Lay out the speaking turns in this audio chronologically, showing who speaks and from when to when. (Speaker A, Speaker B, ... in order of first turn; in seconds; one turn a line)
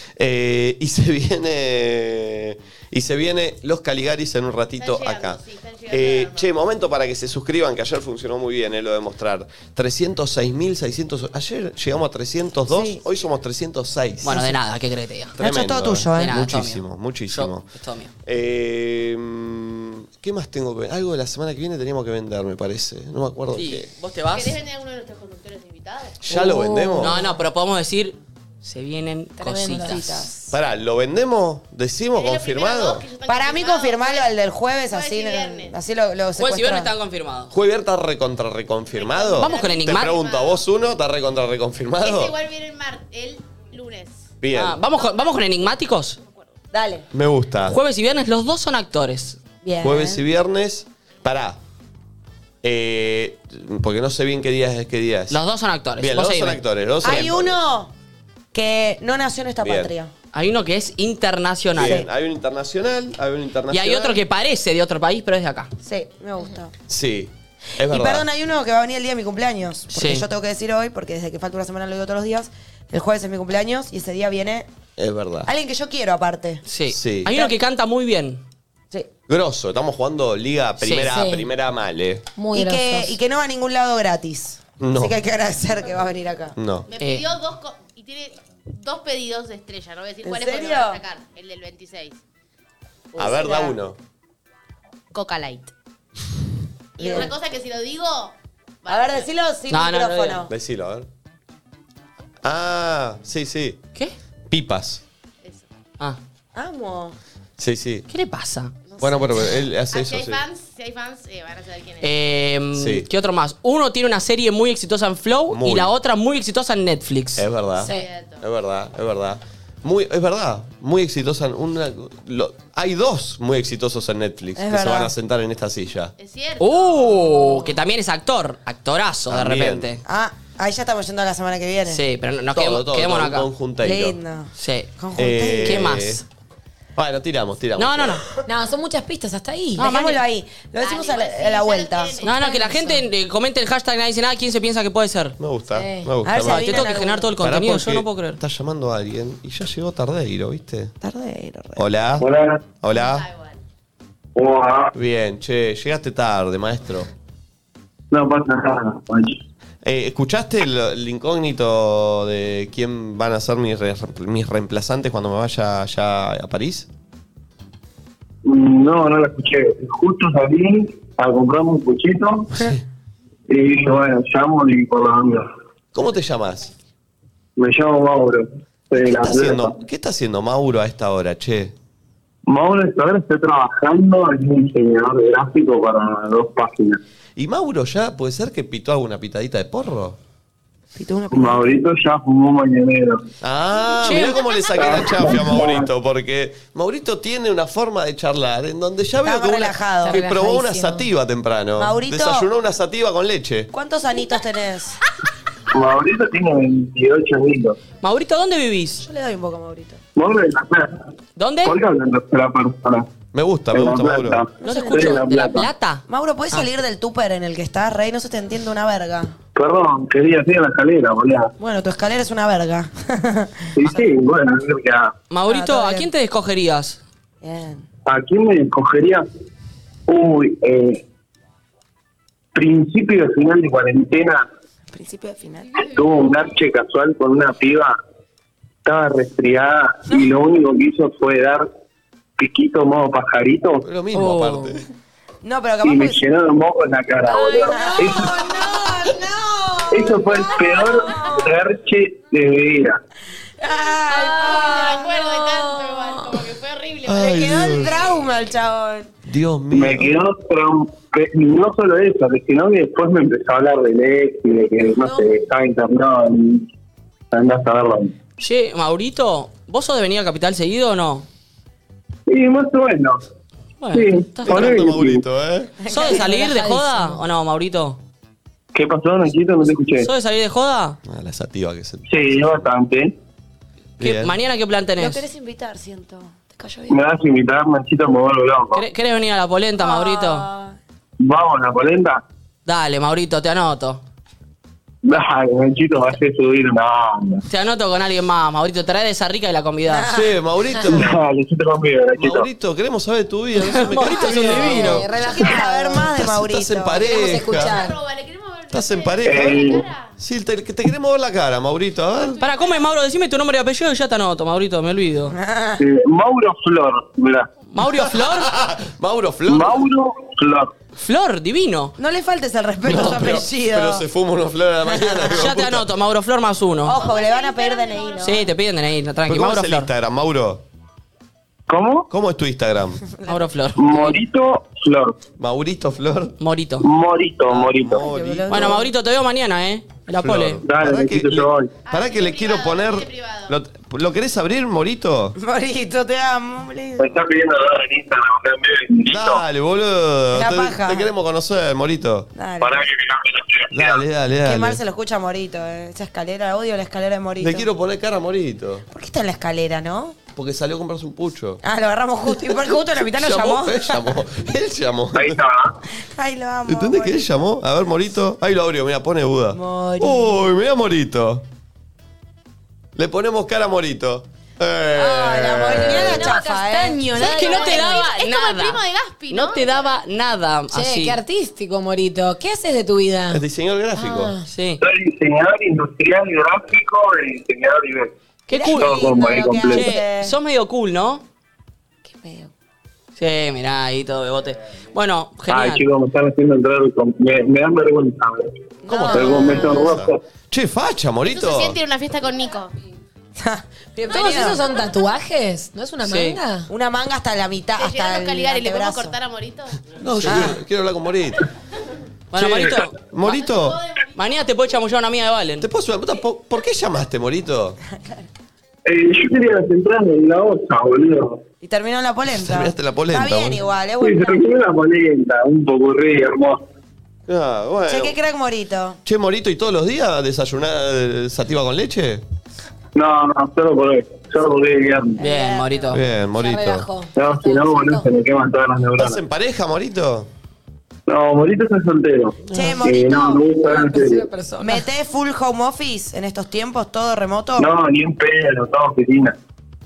Speaker A: 0.1-14.5
Speaker B: 4.8-6.5
Speaker C: 12.7-13.0
Speaker D: 14.2-15.3
Speaker A: 15.4-17.7
Speaker C: 15.4-16.4
Speaker D: 16.1-18.1
Speaker A: 18.3-23.9
Speaker D: 23.6-24.6
Speaker B: 24.3-26.2
Speaker A: 26.2-27.2
Speaker E: 26.3-27.3
Speaker D: 27.0-30.3
Speaker E: 29.4-30.3
Speaker C: 29.8-30.4
Speaker A: 30.5-33.1
Speaker B: 32.1-34.3
Speaker C: 33.3-36.9
Speaker B: 34.9-35.8
Speaker D: 36.4-37.5
Speaker A: 37.5-42.3
Speaker B: 38.9-40.6
Speaker D: 39.4-40.1
Speaker B: 42.0-44.4
Speaker A: 44.4-44.8
Speaker D: 44.5-46.2
Speaker B: 44.9-45.7
Speaker C: 46.7-47.0
Speaker A: 47.1-47.8
Speaker D: 47.7-49.4
Speaker C: 49.6-50.2
Speaker A: 49.8-51.6
Speaker A: 52.6-55.4
Speaker D: 55.3-57.3
Speaker A: 56.0-57.6
Speaker C: 57.0-57.9
Speaker C: 58.5-60.1
Speaker A: 59.6-59.9
Speaker D: 60.3-62.0
Speaker A: 61.7-64.2
Speaker C: 61.8-62.1
Speaker D: 63.7-65.7
Speaker C: 65.8-66.7
Speaker A: 66.9-68.3
Speaker C: 67.8-74.7
Speaker D: 69.9-70.3
Speaker A: 75.0-75.5
Speaker C: 75.5-76.6
Speaker D: 76.7-78.4
Speaker A: 76.9-77.3
Speaker A: 79.3-82.3
Speaker D: 80.8-81.1
Speaker E: 81.0-81.5
Speaker E: 82.4-83.2
Speaker C: 82.5-86.6
Speaker A: 84.8-85.2
Speaker A: 86.6-86.9
Speaker B: 86.9-92.2
Speaker D: 87.0-87.3
Speaker C: 90.2-91.0
Speaker C: 93.2-93.7
Speaker A: 93.2-94.0
Speaker B: 95.1-95.7
Speaker C: 97.0-97.3
Speaker B: 97.0-99.3
Speaker C: 98.9-100.5
Speaker D: 99.7-100.5
Speaker A: 100.5-101.1
Speaker A: 102.4-103.8
Speaker A: 104.5-105.0
Speaker B: 105.4-105.7
Speaker C: 106.5-107.2
Speaker A: 107.6-108.0
Speaker D: 108.1-108.7
Speaker C: 109.0-109.4
Speaker A: 109.0-110.4
Speaker B: 109.8-112.1
Speaker D: 112.0-117.5
Speaker A: 112.8-113.1
Speaker A: 115.5-115.9
Speaker A: 117.4-126.1
Speaker E: 117.8-118.1
Speaker B: 117.8-118.5
Speaker C: 124.6-125.1
Speaker B: 126.2-127.3
Speaker D: 126.6-130.0
Speaker A: 129.3-129.9
Speaker C: 130.1-132.0
Speaker D: 131.9-133.5
Speaker A: 132.5-134.2
Speaker C: 133.8-136.0
Speaker D: 134.6-134.9
Speaker A: 135.2-136.2
Speaker D: 135.6-136.2
Speaker A: 137.0-138.2
Speaker D: 137.8-138.2
Speaker E: 138.4-139.9
Speaker C: 139.8-142.3
Speaker D: 139.8-140.2
Speaker B: 140.8-142.6
Speaker D: 142.2-145.4
Speaker E: 142.4-143.0
Speaker A: 145.4-150.9
Speaker E: 145.7-146.1
Speaker C: 146.2-147.3
Speaker D: 146.4-148.4
Speaker C: 151.0-151.8
Speaker A: 151.8-152.3
Speaker F: 152.2-152.6
Speaker A: 152.8-153.3
Speaker B: 152.9-153.6
Speaker F: 154.4-154.9
Speaker A: 154.9-157.1
Speaker F: 158.1-159.4
Speaker A: 159.8-166.9
Speaker F: 168.4-172.5
Speaker F: 173.5-175.5
Speaker A: 175.9-176.7
Speaker F: 177.6-179.8
Speaker A: 179.0-181.7
Speaker F: 182.5-187.0
Speaker A: 187.4-190.2
Speaker C: 191.0-191.8
Speaker F: 191.3-193.3
Speaker A: 193.4-203.7
Speaker B: 193.7-195.4
Speaker D: 194.0-195.0
Speaker F: 194.8-195.9
Speaker C: 199.2-200.3
Speaker E: 200.0-201.1
Speaker C: 201.8-202.5
Speaker C: 203.7-205.0
Speaker F: 205.7-207.8
Speaker D: 208.0-209.0
Speaker C: 209.0-210.0
Speaker F: 210.2-211.1
Speaker D: 211.4-211.8
Speaker F: 211.6-213.1
Speaker A: 213.3-214.4
Speaker F: 213.7-215.7
Speaker C: 214.6-215.3
Speaker D: 214.6-216.7
Speaker C: 216.1-219.3
Speaker F: 219.6-221.5
Speaker C: 221.6-224.0
Speaker F: 223.8-225.1
Speaker D: 225.3-227.0
Speaker C: 225.4-226.1
Speaker C: 227.4-227.9
Speaker F: 228.1-229.2
Speaker F: 230.1-231.0
Speaker F: 232.6-234.4
Speaker C: 234.9-235.9
Speaker F: 235.9-238.0
Speaker F: 238.8-241.7
Speaker F: 242.4-243.8
Speaker A: 243.8-244.8
Speaker D: 244.1-244.8
Speaker C: 245.4-246.2
Speaker F: 245.8-248.4
Speaker E: 247.2-249.7
Speaker C: 247.5-251.4
Speaker F: 249.9-253.0
Speaker C: 253.6-256.3
Speaker E: 254.1-254.9
Speaker B: 254.4-257.9
Speaker A: 257.1-258.1
Speaker C: 257.2-259.1
Speaker A: 259.3-260.1
Speaker F: 259.7-266.7
Speaker F: 267.3-268.1
Speaker D: 268.4-271.3
Speaker F: 272.3-273.2
Speaker D: 273.8-274.9
Speaker F: 273.9-275.3
Speaker A: 274.4-275.8
Speaker C: 275.8-276.2
Speaker D: 275.9-278.0
Speaker E: 276.0-277.2
Speaker F: 278.7-280.1
Speaker D: 280.0-281.0
Speaker A: 281.1-282.1
Speaker F: 282.1-283.1
Speaker D: 284.0-285.2
Speaker A: 284.0-284.3
Speaker C: 285.0-287.0
Speaker F: 286.9-288.9
Speaker D: 288.7-290.5
Speaker C: 289.8-290.8
Speaker F: 291.2-292.2
Speaker D: 292.7-294.0
Speaker F: 295.1-297.4
Speaker D: 297.5-300.1
Speaker C: 299.9-300.4
Speaker A: 300.1-301.2
Speaker F: 300.9-302.5
Speaker A: 302.2-305.1
Speaker D: 303.6-305.0
Speaker E: 304.0-306.1
Speaker C: 304.8-307.1
Speaker A: 306.1-307.8
Speaker E: 307.0-308.0
Speaker B: 307.4-310.1
Speaker A: 308.7-312.4
Speaker F: 309.2-309.9
Speaker B: 312.1-312.9
Speaker D: 312.4-315.4
Speaker C: 315.3-315.8
Speaker F: 315.8-317.5
Speaker D: 317.7-318.5
Speaker A: 318.0-319.9
Speaker F: 319.5-320.7
Speaker D: 321.0-322.0
Speaker C: 322.0-324.1
Speaker A: 322.9-325.9
Speaker C: 324.9-325.4
Speaker D: 325.3-327.0
Speaker C: 326.9-328.4
Speaker B: 326.9-328.5
Speaker D: 328.2-329.9
Speaker A: 329.3-330.6
Speaker F: 331.7-332.1
Speaker A: 332.1-333.0
Speaker C: 333.1-333.3
Speaker D: 333.3-334.2
Speaker F: 333.8-335.2
Speaker A: 335.4-336.4
Speaker D: 336.4-336.9
Speaker F: 336.8-338.0
Speaker A: 337.5-338.8
Speaker C: 337.9-338.9
Speaker D: 338.5-340.6
Speaker A: 340.2-345.4
Speaker F: 340.6-341.8
Speaker B: 341.8-343.6
Speaker C: 345.4-347.1
Speaker F: 347.0-349.4
Speaker A: 349.1-352.3
Speaker C: 350.3-351.1
Speaker C: 352.4-352.8
Speaker F: 352.6-354.0
Speaker A: 353.7-354.8
Speaker C: 354.4-357.7
Speaker A: 357.4-358.9
Speaker C: 358.9-360.2
Speaker A: 360.4-361.6
Speaker C: 361.6-364.2
Speaker A: 363.0-365.4
Speaker F: 365.1-365.8
Speaker C: 366.1-367.3
Speaker A: 366.7-371.4
Speaker C: 369.5-370.5
Speaker A: 373.0-376.3
Speaker C: 374.9-377.7
Speaker E: 375.7-378.0
Speaker D: 377.1-381.2
Speaker B: 377.1-380.0
Speaker E: 380.7-383.4
Speaker A: 383.3-384.4
Speaker E: 383.9-384.5
Speaker D: 384.5-384.8
Speaker F: 384.8-389.9
Speaker D: 388.5-391.2
Speaker C: 388.5-390.3
Speaker C: 392.1-392.5
Speaker D: 393.2-395.9
Speaker F: 395.5-398.5
Speaker C: 398.9-400.0
Speaker A: 398.9-401.8
Speaker F: 399.1-400.2
Speaker B: 401.2-402.7
Speaker C: 403.4-404.6
Speaker E: 404.0-406.7
Speaker B: 404.1-404.6
Speaker D: 406.0-406.4
Speaker C: 406.7-409.1
Speaker B: 407.8-409.8
Speaker A: 410.0-411.4
Speaker C: 410.3-410.6
Speaker D: 412.3-413.3
Speaker A: 412.4-413.8
Speaker B: 413.2-414.8
Speaker D: 414.1-415.6
Speaker A: 415.6-417.8
Speaker C: 417.9-418.3
Speaker F: 418.9-421.4
Speaker C: 421.6-424.4
Speaker A: 422.3-423.6
Speaker F: 424.0-426.6
Speaker A: 427.3-428.2
Speaker C: 427.9-429.0
Speaker A: 429.1-432.2
Speaker F: 432.9-435.2
Speaker D: 435.2-436.0
Speaker E: 435.2-438.1
Speaker A: 435.9-436.9
Speaker F: 437.1-439.2
Speaker A: 439.0-440.3
Speaker F: 441.1-444.3
Speaker C: 442.5-443.5
Speaker E: 443.6-444.9
Speaker C: 444.6-447.7
Speaker F: 447.6-449.4